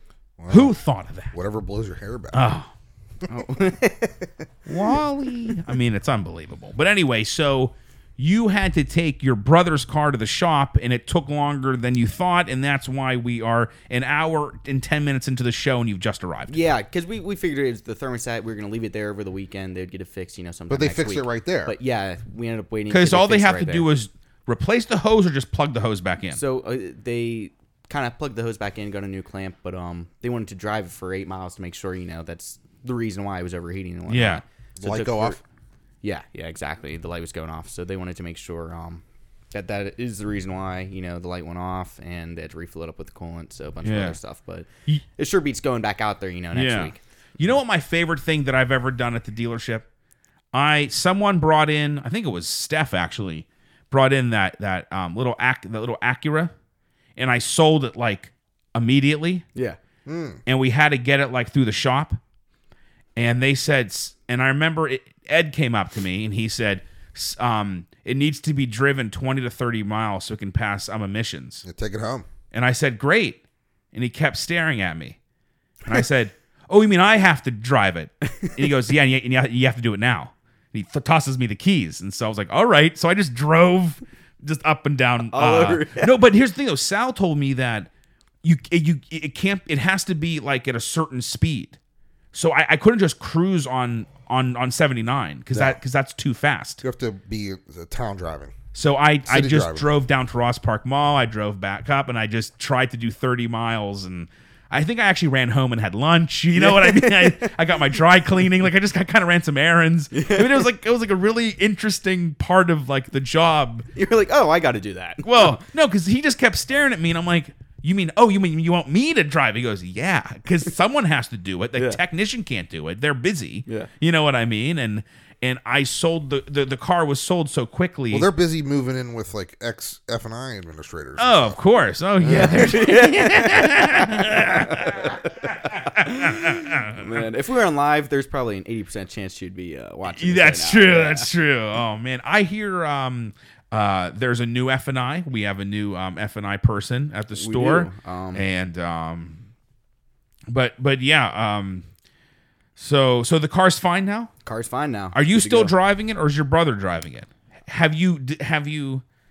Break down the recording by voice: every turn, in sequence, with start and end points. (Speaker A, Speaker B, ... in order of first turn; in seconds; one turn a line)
Speaker A: 0.4-0.8
Speaker B: 0.5-1.3
Speaker A: 1.3-2.4
Speaker B: 2.3-2.7
Speaker C: 3.3-4.3
Speaker B: 4.7-16.6
Speaker C: 16.5-23.9
Speaker A: 20.7-21.8
Speaker B: 22.9-26.4
Speaker C: 26.4-35.4
Speaker B: 34.1-34.4
Speaker A: 34.8-35.4
Speaker C: 36.0-47.0
Speaker B: 43.8-44.2
Speaker B: 46.5-49.9
Speaker B: 50.5-56.5
Speaker B: 57.2-59.4
Speaker A: 60.1-60.4
Speaker B: 60.5-62.2
Speaker B: 63.2-71.7
Speaker A: 71.7-72.3
Speaker B: 72.5-73.4
Speaker B: 73.9-75.2
Speaker B: 75.9-87.9
Speaker C: 78.3-78.6
Speaker C: 85.3-86.1
Speaker B: 88.4-91.8
Speaker B: 92.3-96.8
Speaker A: 95.5-95.8
Speaker A: 96.8-98.5
Speaker B: 98.7-113.9
Speaker A: 99.3-99.9
Speaker C: 106.5-108.0
Speaker C: 110.1-110.7
Speaker C: 113.9-115.6
Speaker B: 115.2-128.3
Speaker A: 128.1-131.6
Speaker B: 131.2-137.2
Speaker A: 132.2-132.7
Speaker C: 132.2-141.3
Speaker B: 140.1-149.4
Speaker C: 147.4-148.4
Speaker B: 150.5-151.8
Speaker B: 152.8-154.3
Speaker C: 154.4-155.7
Speaker B: 155.1-159.0